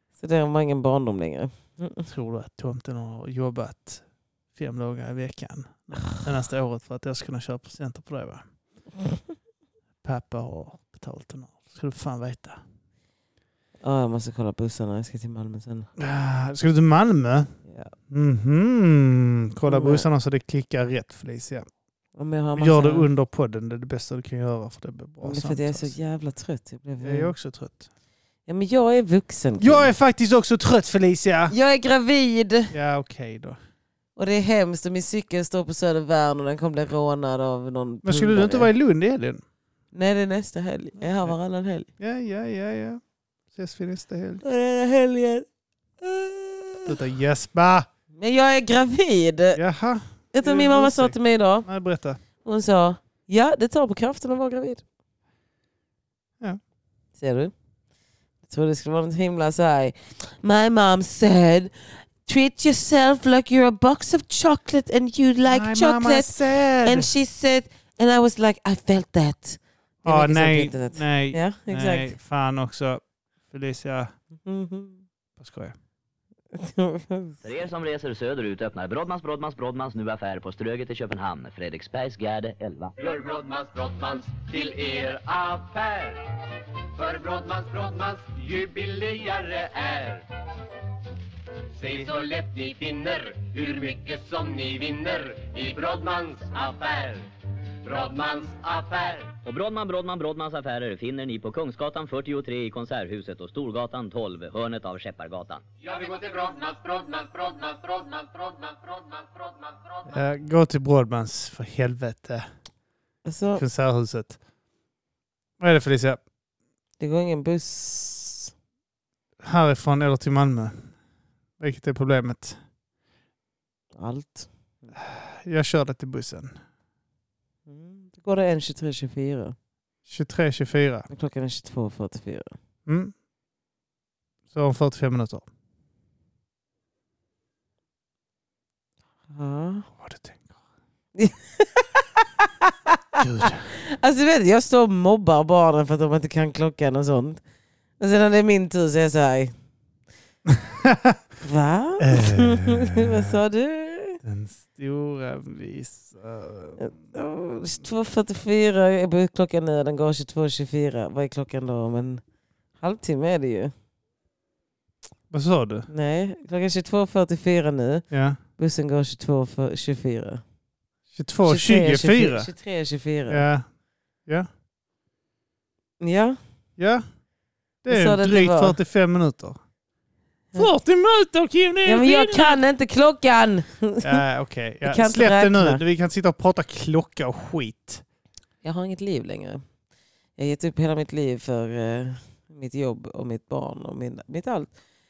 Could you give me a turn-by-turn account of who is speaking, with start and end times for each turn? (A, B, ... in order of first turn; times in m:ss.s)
0:00.2-0:02.0 A
0:02.1-0:04.0 B
0:04.6-0:08.4 B
0:10.0-0:12.6 B
0:13.8-0:15.9 A
0:16.0-0:17.6 B
0:17.7-0:17.9 A
0:18.1-0:21.7 B
0:19.7-0:20.1 A
0:22.2-0:23.1 A
0:22.6-0:25.9 B
0:25.2-0:27.3 A
0:27.0-0:27.9 B
0:28.5-0:29.9 A
0:29.6-0:31.5 B
0:31.5-0:32.7 A
0:32.7-0:33.6 B
0:34.2-0:38.7 A
0:38.0-0:39.4 B
0:39.9-0:41.9 A
0:42.0-0:43.0 B
0:43.5-0:44.4 B
0:44.4-0:45.5 A
0:46.0-0:47.0 A
0:46.9-0:47.9 B
0:48.2-0:49.6 A
0:49.6-0:52.2 B
0:50.3-0:51.7 A
0:52.4-0:54.8 A
0:57.2-0:57.5 A
0:58.5-1:01.7 A
1:02.2-1:12.1 A
1:05.5-1:07.1 B
1:10.0-1:14.1 B
1:14.4-1:15.0 A
1:15.4-1:15.8 B
1:16.5-1:17.4 A
1:17.4-1:23.0 C
1:23.0-1:26.4 D
1:26.9-1:30.3 D
1:31.7-1:37.3 D
1:37.8-1:39.4 D
1:39.4-1:45.6 C
1:45.8-1:50.2 D
1:50.1-1:52.5 B
1:53.2-1:53.6 A
1:53.6-1:54.4 B
1:55.6-1:56.2 B
1:57.0-1:58.5 A
1:59.4-2:00.9 B
2:01.6-2:02.6 B
2:04.0-2:04.9 A
2:05.0-2:06.6 B
2:07.7-2:09.6 A
2:10.1-2:11.1 B
2:11.1-2:12.5 A
2:12.9-2:13.1 B
2:14.5-2:15.4 B
2:19.3-2:19.9 A
2:20.0-2:20.5 B
2:21.2-2:27.4 A
2:23.2-2:23.7 B
2:28.0-2:29.5 A
2:30.5-2:31.2 B
2:31.4-2:34.2 A
2:32.0-2:33.3 B
2:34.2-2:36.9 B
2:36.8-2:42.2 A
2:42.8-2:43.7 A
2:45.3-2:45.9 B
2:45.9-2:48.0 A
2:48.1-2:48.4 B
2:48.6-2:50.4 A
2:51.2-2:52.5 B
2:51.4-2:53.4 A
2:53.3-2:53.6 B
2:56.0-2:56.4 A
2:56.8-2:57.0 B
2:57.8-2:59.6 B
2:57.9-2:58.8 A
3:00.6-3:02.6 B
3:01.8-3:04.2 A
3:04.0-3:08.0 B
3:04.8-3:05.8 A
3:08.6-3:09.6 A
3:10.4-3:14.7 A